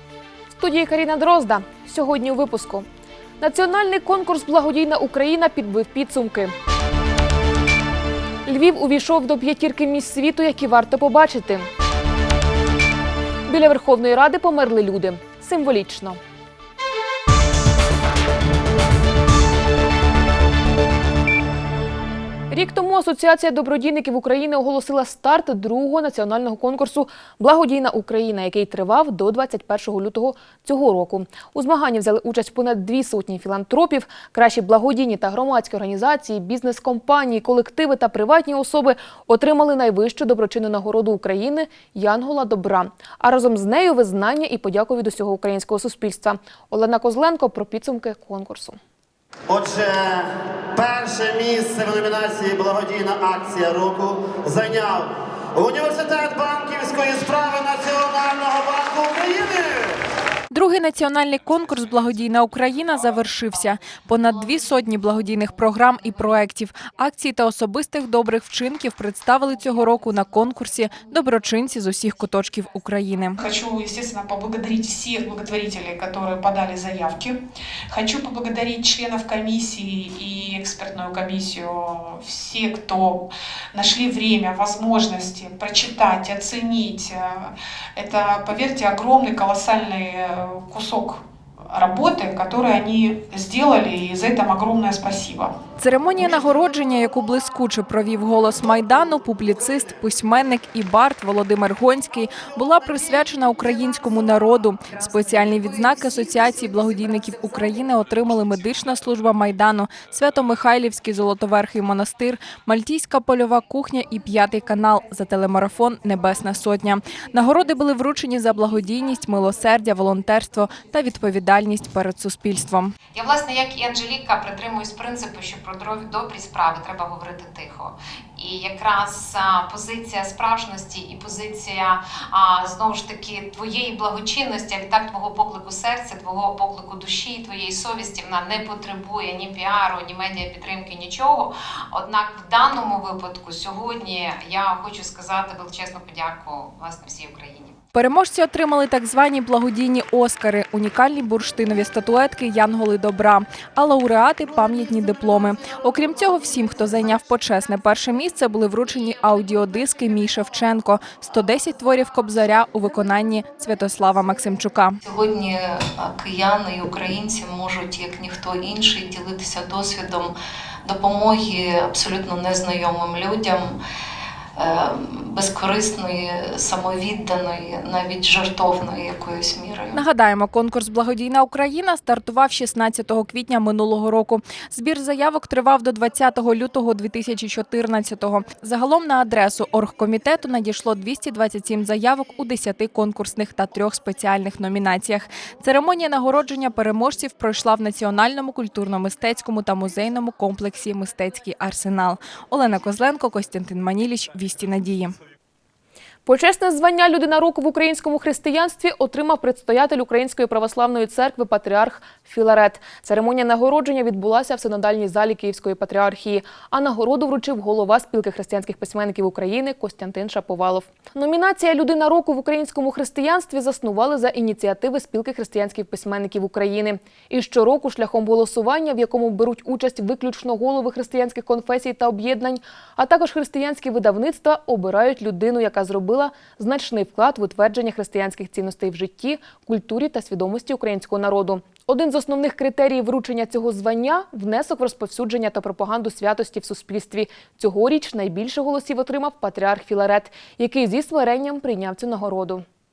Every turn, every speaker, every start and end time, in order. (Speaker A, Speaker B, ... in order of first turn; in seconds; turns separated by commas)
Speaker A: 0.6-2.9, Speaker A: 3.4-6.5, Speaker A: 8.4-11.7, Speaker A: 13.5-16.2, Speaker A: 22.5-48.8, Speaker B: 49.5-50.2, Speaker B: 50.8-59.6, Speaker C: 60.5-73.4, Speaker D: 73.4-95.6, Speaker C: 95.8-122.9, Speaker E: 123.1-147.7, Speaker C: 147.9-165.0, Speaker F: 165.0-173.8, Speaker F: 174.5-180.0, Speaker C: 179.9-205.1, Speaker A: 206.2-252.6